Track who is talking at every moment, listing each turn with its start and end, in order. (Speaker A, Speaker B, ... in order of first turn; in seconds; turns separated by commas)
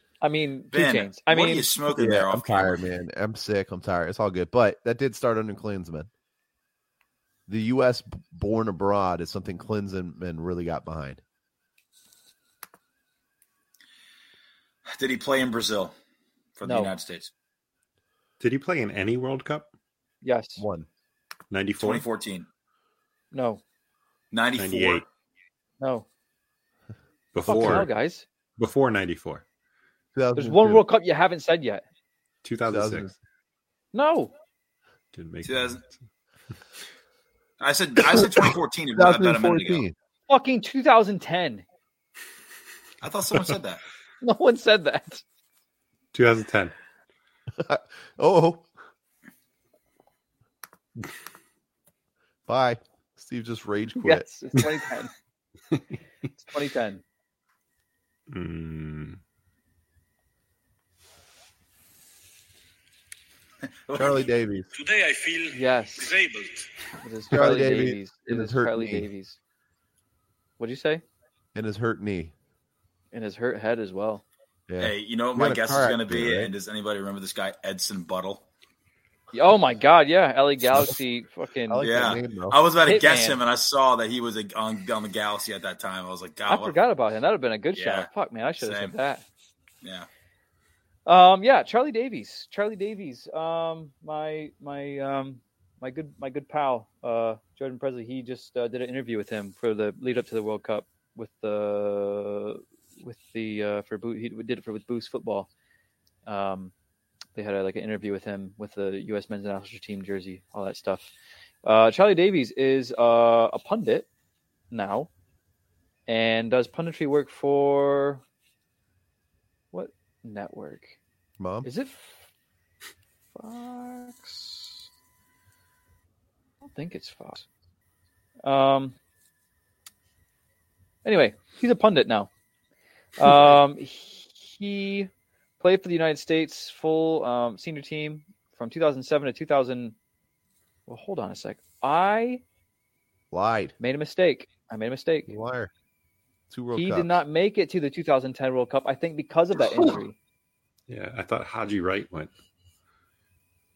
Speaker A: 0.2-1.7, Speaker B: 0.7-2.8, Speaker C: 1.9-6.1, Speaker C: 7.5-11.2, Speaker B: 14.9-15.9, Speaker B: 16.6-17.3, Speaker A: 16.6-16.9, Speaker D: 18.4-19.7, Speaker A: 20.2-20.6, Speaker C: 20.6-20.9, Speaker D: 21.5-22.1, Speaker B: 21.8-22.5, Speaker A: 23.3-23.6, Speaker B: 24.3-25.1, Speaker D: 24.6-25.0, Speaker A: 25.8-26.1, Speaker D: 27.3-27.9, Speaker A: 27.4-28.2, Speaker D: 28.6-29.4, Speaker C: 30.1-30.8, Speaker A: 30.4-31.8, Speaker D: 32.4-33.1, Speaker C: 32.6-33.1, Speaker A: 33.9-34.3, Speaker D: 35.1-36.0, Speaker B: 35.4-35.8, Speaker B: 37.6-39.8, Speaker C: 38.0-39.9, Speaker A: 40.3-41.6, Speaker B: 43.0-43.8, Speaker A: 44.2-45.2, Speaker D: 46.1-46.7, Speaker C: 47.5-48.6, Speaker C: 52.5-54.3, Speaker A: 54.0-55.1, Speaker A: 56.4-57.0, Speaker D: 58.3-59.2, Speaker B: 63.9-64.3, Speaker C: 63.9-64.7, Speaker E: 64.7-66.7, Speaker A: 65.5-66.1, Speaker A: 67.0-69.4, Speaker C: 67.3-69.1, Speaker A: 70.6-71.0, Speaker C: 71.5-72.3, Speaker A: 73.1-74.2, Speaker C: 74.7-76.5, Speaker B: 74.8-78.4, Speaker A: 79.3-81.8, Speaker C: 81.7-82.6, Speaker B: 81.8-86.8, Speaker A: 82.8-83.4, Speaker A: 86.5-89.2, Speaker B: 87.8-88.9, Speaker B: 89.8-90.1, Speaker A: 91.0-105.5, Speaker A: 106.2-106.7, Speaker A: 107.3-111.1, Speaker A: 111.6-114.1, Speaker A: 114.7-115.1, Speaker A: 116.1-118.2, Speaker A: 119.7-120.9, Speaker C: 121.4-121.7, Speaker A: 121.6-122.3, Speaker A: 123.3-124.8, Speaker A: 126.6-127.5, Speaker A: 128.4-128.9, Speaker A: 131.0-132.3, Speaker A: 133.2-139.9, Speaker A: 140.9-142.4, Speaker C: 143.3-143.7, Speaker A: 143.8-145.3, Speaker C: 145.3-145.7, Speaker C: 146.5-147.2, Speaker A: 146.7-150.2, Speaker D: 150.9-152.3